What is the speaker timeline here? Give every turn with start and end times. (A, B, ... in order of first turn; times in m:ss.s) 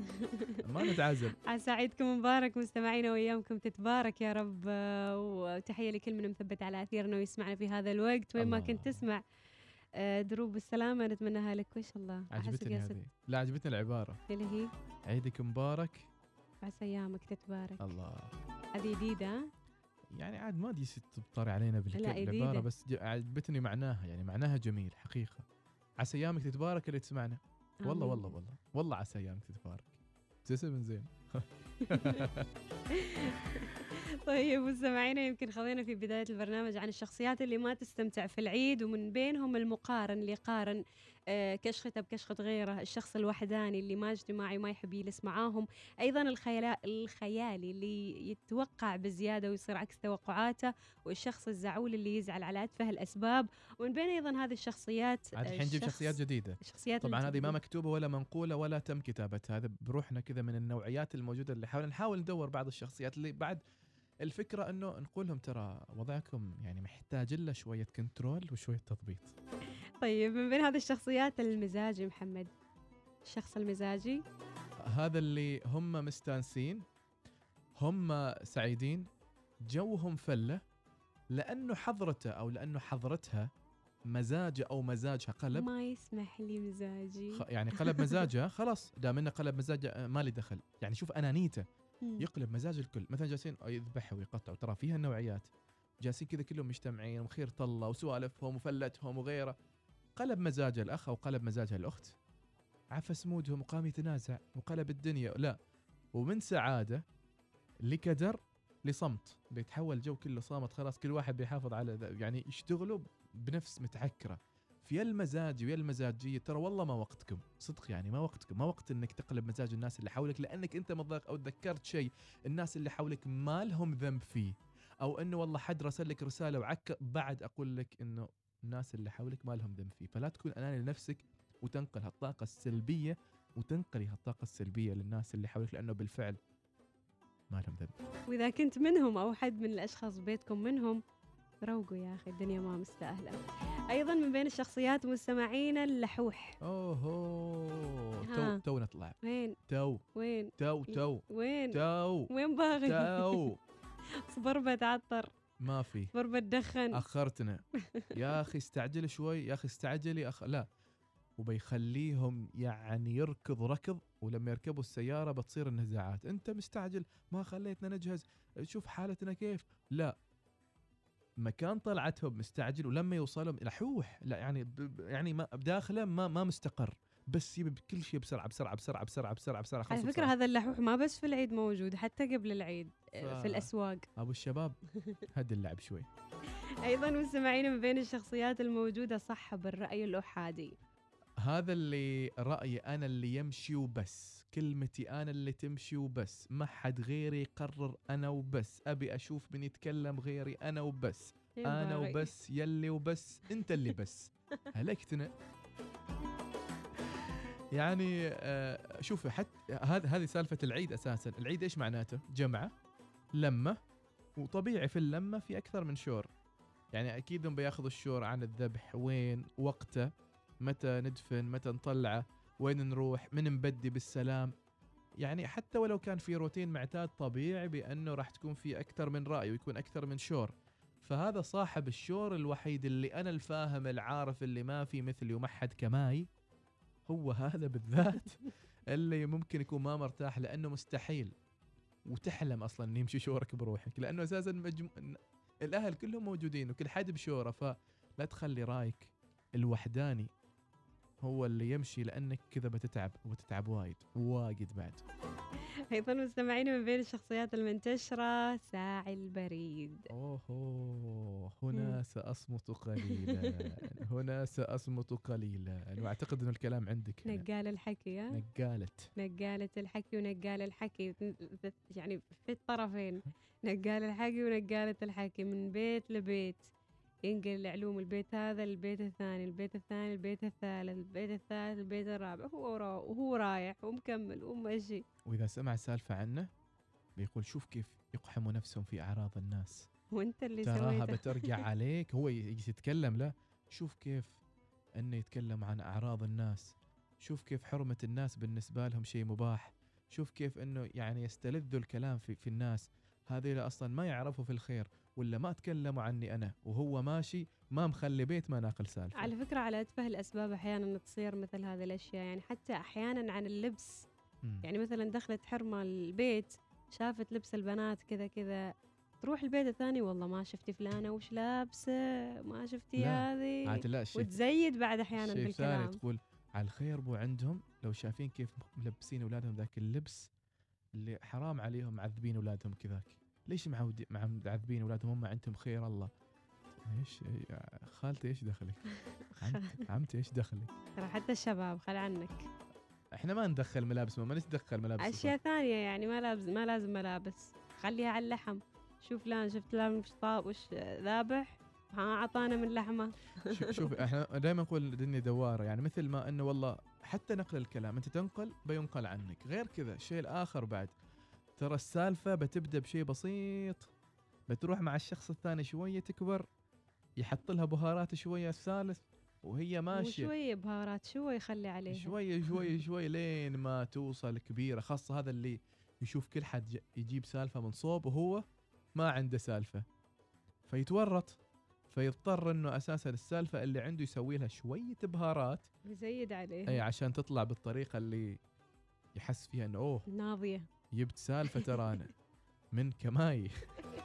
0:00.2-0:09.2 A
0:00.6-0:01.4 B
0:08.4-0:09.1 B
0:10.0-0:13.0 A
0:12.3-0:14.2 B
0:14.3-0:14.7 A
0:15.1-0:16.1 B
0:16.6-0:18.0 A
0:17.8-0:18.4 B
0:18.7-0:19.4 A
0:20.1-0:25.5 B
0:21.9-0:22.7 A
0:26.0-0:32.5 B
0:27.8-0:28.3 A
0:31.9-0:32.3 A
0:32.9-0:57.6 A
0:55.4-1:03.6 B
1:04.2-1:09.4 B
1:10.0-1:12.5 A
1:13.2-1:14.2 A
1:14.8-1:16.8 B
1:17.8-1:19.1 B
1:19.7-1:20.6 B
1:21.3-1:23.5 B
1:24.1-1:25.7 B
1:25.5-1:28.2 A
1:27.3-1:31.6 B
1:32.2-1:35.5 B
1:36.0-1:39.6 B
1:40.2-1:42.2 B
1:42.9-1:45.6 B
1:46.1-1:47.0 B
1:47.9-2:16.4 B
2:17.5-2:17.9 B
2:18.3-2:21.0 A
2:21.6-2:26.6 A
2:26.6-2:30.0 B
2:28.3-2:28.6 A
2:29.2-2:29.6 A
2:30.2-2:33.5 A
2:30.6-2:33.6 B
2:34.3-2:35.3 A
2:35.6-2:36.1 B
2:36.1-2:37.0 A
2:36.9-2:37.6 B
2:38.1-2:40.7 B
2:41.4-2:50.2 B
2:51.4-3:00.3 B
2:59.9-3:04.1 A
3:03.2-3:04.8 B
3:05.3-3:06.1 B
3:06.8-3:10.7 A
3:11.4-3:25.3 B
3:21.6-3:22.3 A
3:27.7-3:32.7 B
3:33.4-3:33.8 B
3:34.4-3:36.3 B
3:36.9-3:40.1 B
3:40.6-3:44.5 B
3:45.2-3:56.3 B
3:57.1-4:01.3 B
4:02.1-4:10.3 B
4:11.2-4:15.0 B
4:15.9-4:20.1 A
4:20.1-4:27.4 B
4:23.0-4:23.8 A
4:27.3-4:28.4 A
4:28.3-4:29.1 B
4:29.2-4:36.7 A
4:37.3-4:45.0 A
4:45.2-4:46.5 B
4:47.2-4:49.9 B
4:50.1-4:51.6 A
4:50.6-4:54.4 B
4:55.0-5:09.3 B
5:09.2-5:14.1 A
5:14.6-5:18.7 A
5:19.2-5:26.0 A
5:23.0-5:24.4 B
5:25.2-5:30.3 B
5:31.0-5:36.1 B
5:36.8-5:38.8 B
5:39.3-5:39.8 A
5:39.4-5:40.7 B
5:41.0-5:42.4 A
5:43.2-5:45.4 B
5:45.0-5:53.9 A
5:53.5-6:00.9 B
6:01.6-6:03.9 B
6:04.5-6:06.5 B
6:07.2-6:10.3 B
6:09.9-6:12.7 A
6:11.9-6:18.4 B
6:19.0-6:19.8 B
6:20.7-6:21.4 B
6:21.9-6:25.7 B
6:25.9-6:26.8 A
6:26.7-6:28.4 B
6:29.2-6:30.1 B
6:30.1-6:30.7 A
6:30.9-6:32.1 B
6:31.5-6:31.9 A
6:32.7-6:33.7 B